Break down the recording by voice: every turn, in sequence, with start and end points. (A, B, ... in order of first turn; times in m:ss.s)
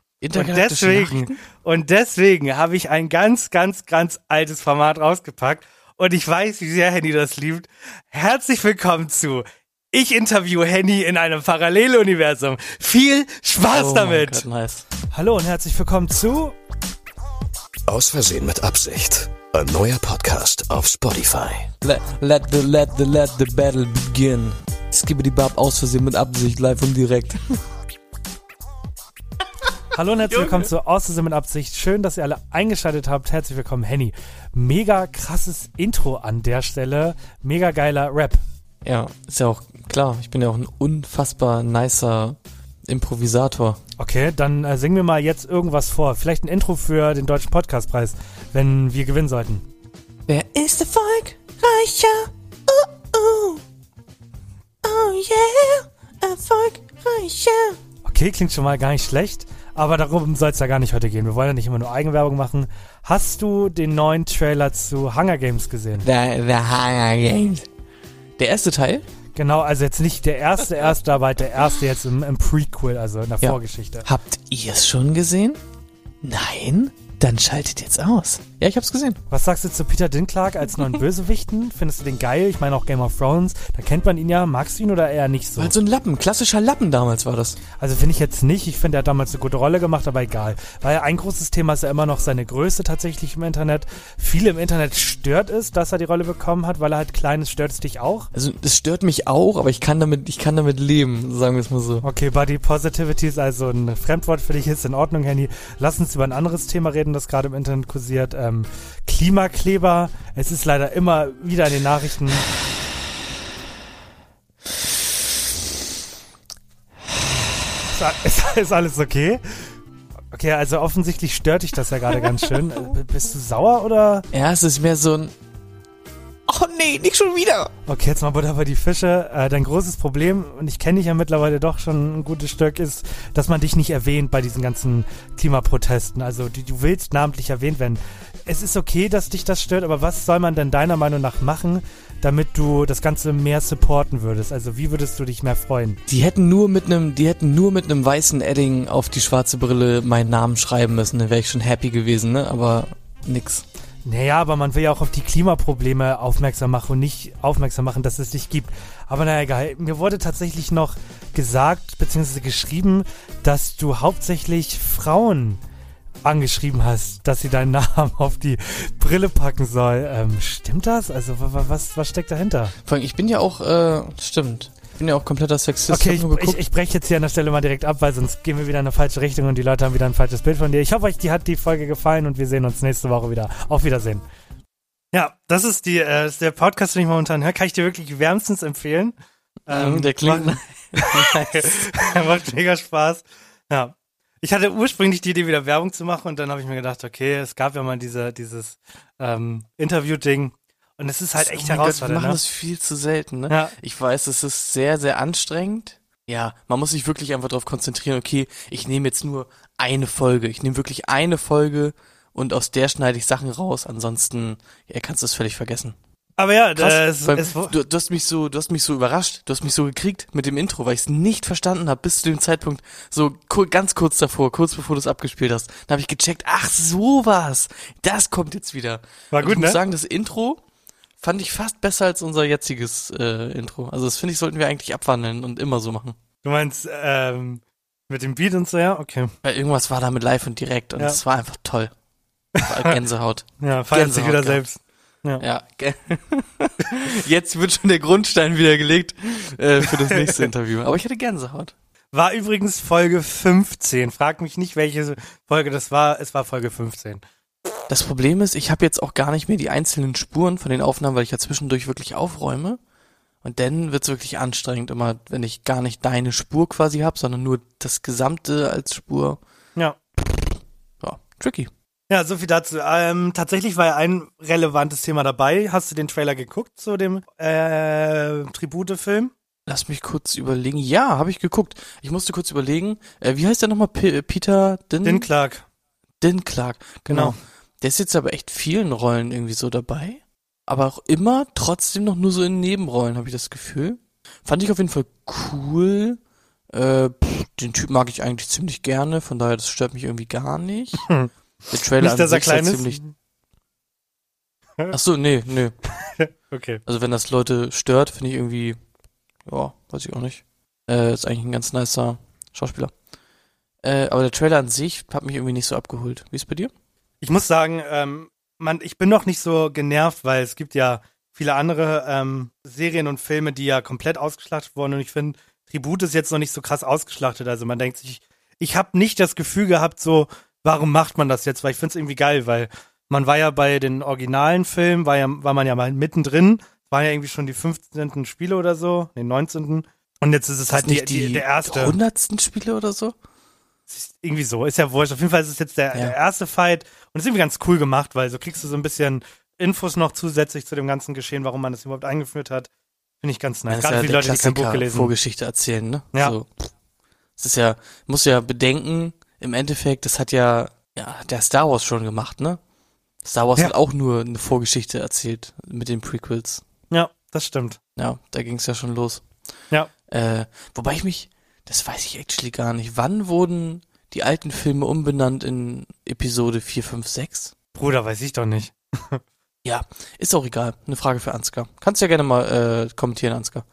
0:00.2-0:01.4 A
0:00.3-0:14.4 B
0:13.7-0:14.9 A
0:15.1-0:16.5 B
0:17.9-0:21.7 C
0:21.8-0:27.4 A
0:29.9-0:38.4 B
0:30.3-0:30.7 A
0:38.8-0:43.8 A
0:44.0-0:49.6 B
0:50.3-0:53.6 A
0:54.8-0:57.8 A
0:58.0-1:06.1 B
1:06.0-1:07.7 A
1:08.4-1:09.0 A
1:09.4-1:14.1 B
1:13.4-1:15.6 A
1:16.2-1:19.2 A
1:19.3-1:25.7 B
1:25.6-1:27.6 A
1:27.8-1:38.3 B
1:38.3-1:42.0 A
1:42.0-1:52.5 B
1:57.9-1:59.8 B
2:00.3-2:04.3 B
2:04.3-2:05.3 A
2:06.5-2:07.7 A
2:07.9-2:26.0 B
2:26.1-2:33.6 A
2:34.0-2:45.6 B
2:46.2-2:52.7 B
2:52.8-2:56.6 A
2:55.9-3:04.2 B
3:05.1-3:09.1 B
3:09.7-3:12.2 A
3:09.7-3:22.4 B
3:21.4-3:36.0 A
3:23.5-3:23.8 B
3:36.4-3:37.8 B
3:36.8-3:50.6 A
3:49.3-3:49.8 B
3:51.2-3:56.2 A
3:56.4-3:59.3 B
3:59.4-4:01.9 A
4:02.6-4:03.0 B
4:02.6-4:04.6 A
4:03.6-4:05.4 B
4:05.4-4:11.7 A
4:09.9-4:10.5 B
4:12.1-4:17.2 B
4:17.9-4:22.8 A
4:23.4-4:29.4 A
4:31.0-4:31.7 A
4:32.1-4:39.3 B
4:39.7-4:45.3 A
4:45.0-4:45.6 B
4:46.2-4:56.2 A
4:47.1-4:47.4 B
4:56.7-5:01.1 A
5:01.7-5:03.0 A
5:02.0-5:03.1 B
5:04.9-5:05.8 A
5:06.0-5:06.8 B
5:06.9-5:08.8 A
5:09.4-5:12.9 A
5:13.8-5:16.7 A
5:17.2-5:42.0 B
5:40.7-5:43.2 A
5:43.9-5:52.7 B
5:53.2-5:55.1 B
5:53.7-5:56.5 A
5:57.4-6:02.6 A
6:03.2-6:06.6 A
6:06.9-6:07.8 B
6:08.0-6:09.3 A
6:10.1-6:17.5 A
6:17.8-6:19.2 B
6:19.6-6:23.6 A